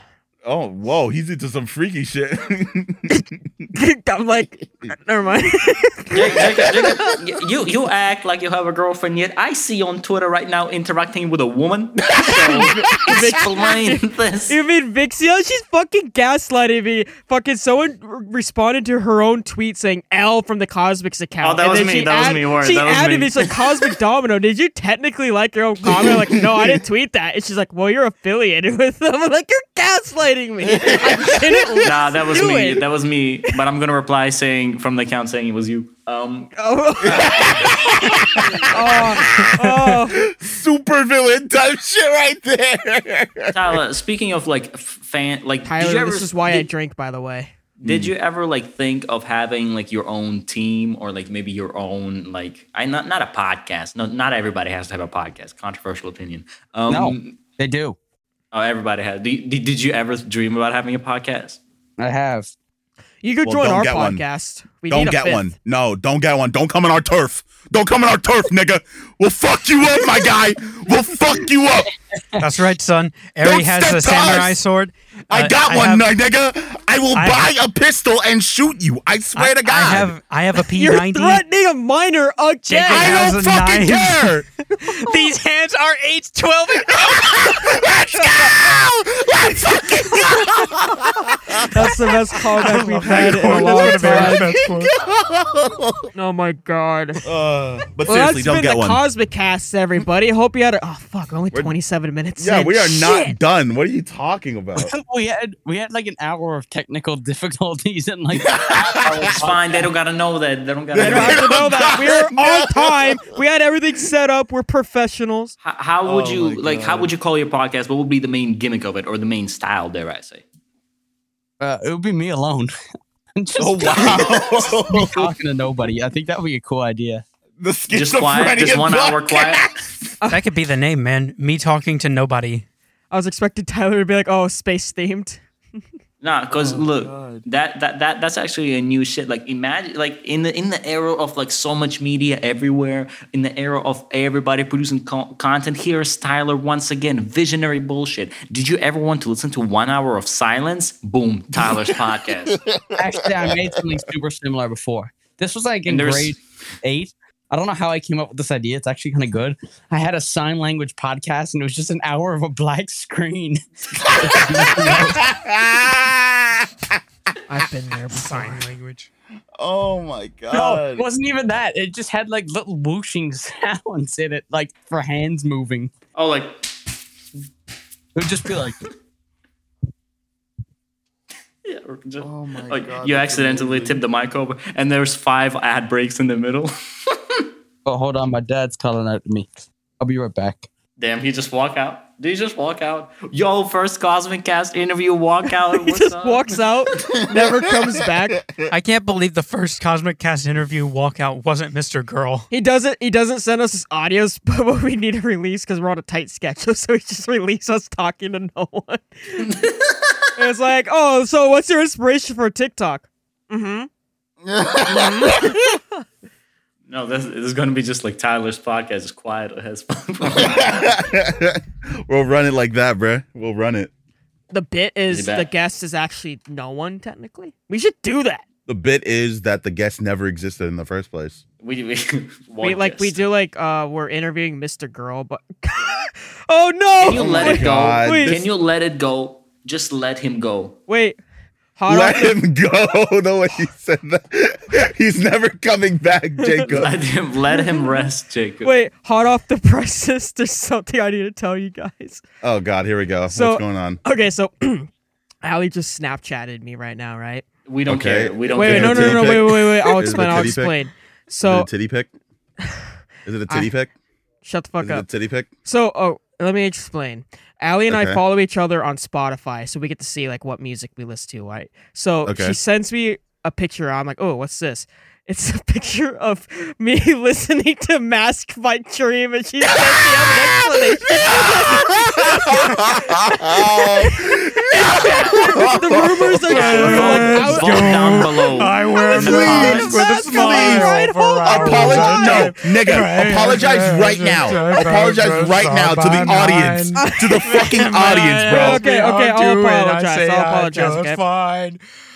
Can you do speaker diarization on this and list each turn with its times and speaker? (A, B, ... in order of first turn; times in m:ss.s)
0:00.4-0:03.2 A
0:03.1-0:07.1 B
0:06.1-0:14.6 C
0:06.3-0:07.0 A
0:12.1-0:13.0 A
0:12.8-0:32.8 B
0:21.4-0:23.7 C
0:25.8-0:26.8 A
0:30.7-0:31.9 A
0:31.8-0:36.5 C
0:36.6-0:40.3 B
0:37.0-0:37.6 C
0:37.1-0:43.7 A
0:43.5-0:46.7 C
0:45.6-0:47.5 B
0:47.8-0:57.4 C
0:47.8-0:48.1 A
0:56.9-0:58.0 D
0:58.5-1:01.6 C
1:02.0-1:02.5 D
1:03.2-1:05.5 B
1:03.4-1:04.2 A
1:04.9-1:11.9 A
1:12.4-1:16.1 E
1:13.4-1:14.6 A
1:15.3-1:20.1 A
1:17.1-1:17.5 E
1:19.4-1:21.4 E
1:20.7-1:23.3 B
1:22.7-1:26.9 E
1:22.9-1:24.4 A
1:24.9-1:25.2 B
1:26.8-1:36.1 A
1:31.6-1:34.6 B
1:32.6-1:34.9 E
1:36.1-1:37.2 B
1:37.2-1:39.0 A
1:38.0-1:43.4 B
1:42.4-1:44.9 A
1:44.8-1:49.9 D
1:48.3-1:49.3 A
1:49.0-1:51.6 C
1:50.9-1:53.4 A
1:51.0-1:55.6 B
1:55.6-2:00.4 C
1:56.0-1:57.1 A
2:01.6-2:02.7 D
2:03.4-2:07.2 D
2:03.6-2:05.3 A
2:07.6-2:10.1 A
2:07.9-2:09.7 C
2:10.3-2:12.6 E
2:13.1-2:15.4 B
2:16.2-2:32.6 C
2:16.5-2:17.4 A
2:31.6-2:34.1 A
2:33.0-2:45.3 D
2:35.9-2:36.4 C
2:44.1-2:47.0 A
2:47.5-2:48.6 B
2:48.1-2:49.1 E
2:49.6-2:51.1 A
2:50.5-2:55.9 D
2:56.1-2:56.6 C
2:58.1-2:58.8 D
3:01.6-3:07.4 C
3:02.2-3:04.0 A
3:07.8-3:10.7 D
3:11.0-3:16.6 C
3:15.7-3:18.5 B
3:17.3-3:17.8 A
3:18.4-3:18.7 A
3:18.7-3:22.5 E
3:22.5-3:29.5 B
3:29.4-3:30.3 C
3:30.4-3:33.9 B
3:34.4-3:35.8 A
3:34.8-3:35.8 B
3:36.9-3:41.0 C
3:40.3-3:43.9 A
3:44.5-3:48.4 B
3:45.1-3:45.5 C
3:48.7-3:51.4 A
3:51.6-3:53.2 C
3:52.6-3:58.4 B
3:57.0-4:00.8 C
3:57.1-3:58.5 A
4:00.9-4:01.2 B
4:01.8-4:02.4 B
4:01.9-4:07.0 A
4:06.4-4:06.7 B
4:06.7-4:08.7 C
4:07.5-4:08.1 B
4:08.6-4:12.2 B
4:12.4-4:14.0 A
4:13.3-4:14.9 B
4:15.4-4:17.4 B
4:17.7-4:19.5 C
4:17.9-4:20.8 A
4:18.5-4:21.7 B
4:21.4-4:22.1 A
4:23.2-4:23.9 A
4:24.4-4:25.1 B
4:24.8-4:25.5 A
4:25.6-4:53.0 B
4:27.9-4:28.2 A
4:32.2-4:32.6 A
4:39.7-4:47.0 A
4:44.8-4:45.5 C
4:46.5-4:49.4 C
4:46.8-5:01.8 E
4:49.1-4:58.8 A
4:57.0-4:57.7 B
4:58.5-5:01.2 B